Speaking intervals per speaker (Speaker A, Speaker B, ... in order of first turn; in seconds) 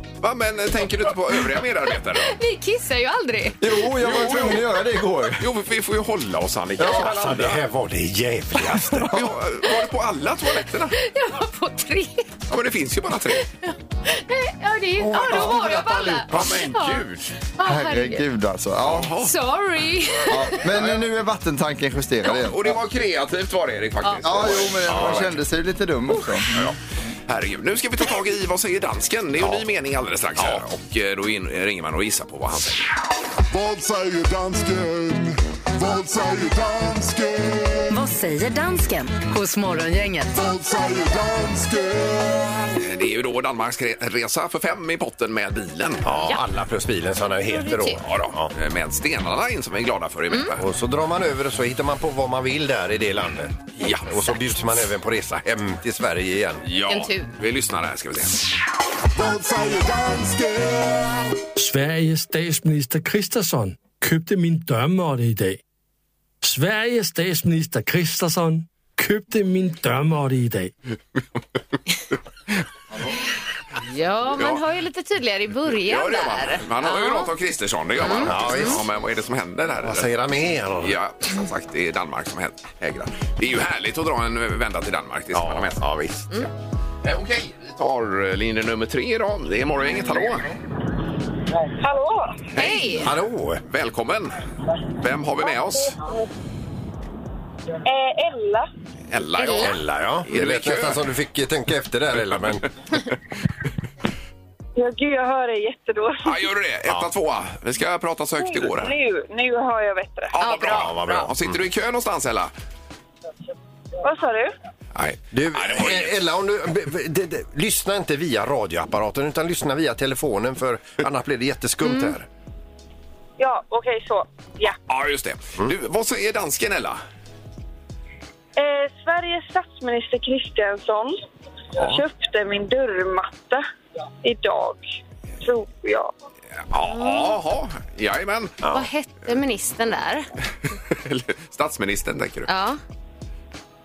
Speaker A: 0.2-2.4, 4.0-4.7, 5.4-7.6, 9.1-11.0, 12.5-13.5, 16.3-17.3, 18.8-19.3, 20.7-21.0, 22.2-25.3, 27.3-32.9, 42.8-46.1, 48.0-50.6, 53.8-54.4, 56.6-58.5, 75.8-80.1, 80.8-85.9, 87.0-90.5, 92.5-94.4, 95.0-96.0, 99.1-101.0, 106.2-108.9, 110.3-112.5, 115.0-116.2, 124.9-127.0, 136.7-138.6, 140.9-142.5
Speaker B: 2.2-3.6, 11.0-12.3, 13.6-18.2, 19.2-20.6, 24.0-24.5, 47.5-48.0, 56.9-57.3, 73.8-77.3, 78.0-78.8, 92.6-93.1, 99.4-99.7, 110.4-111.3, 121.8-122.1, 136.9-137.4, 138.7-140.3, 142.5-142.8
Speaker C: 3.6-5.4, 6.8-7.1, 15.2-15.6, 17.6-19.1, 20.3-22.8, 24.2-26.7
Speaker D: 6.8-9.3, 15.0-16.6, 24.9-25.3, 29.4-29.6, 30.4-30.6, 46.0-48.5, 50.6-56.6, 78.2-78.9, 79.8-81.0, 85.3-86.3, 93.0-93.6, 99.5-102.7, 110.6-111.6, 115.3-122.3, 138.6-138.9
Speaker E: 33.5-37.9, 40.3-42.7, 59.2-61.3
Speaker F: 37.9-40.3
Speaker G: 61.6-65.6, 66.4-70.7
Speaker H: 91.8-92.5, 95.5-96.3, 97.8-98.7, 104.8-106.5, 108.4-110.3, 114.0-114.5, 123.4-124.8, 128.6-131.2, 131.8-133.6, 134.2-134.8, 135.4-136.1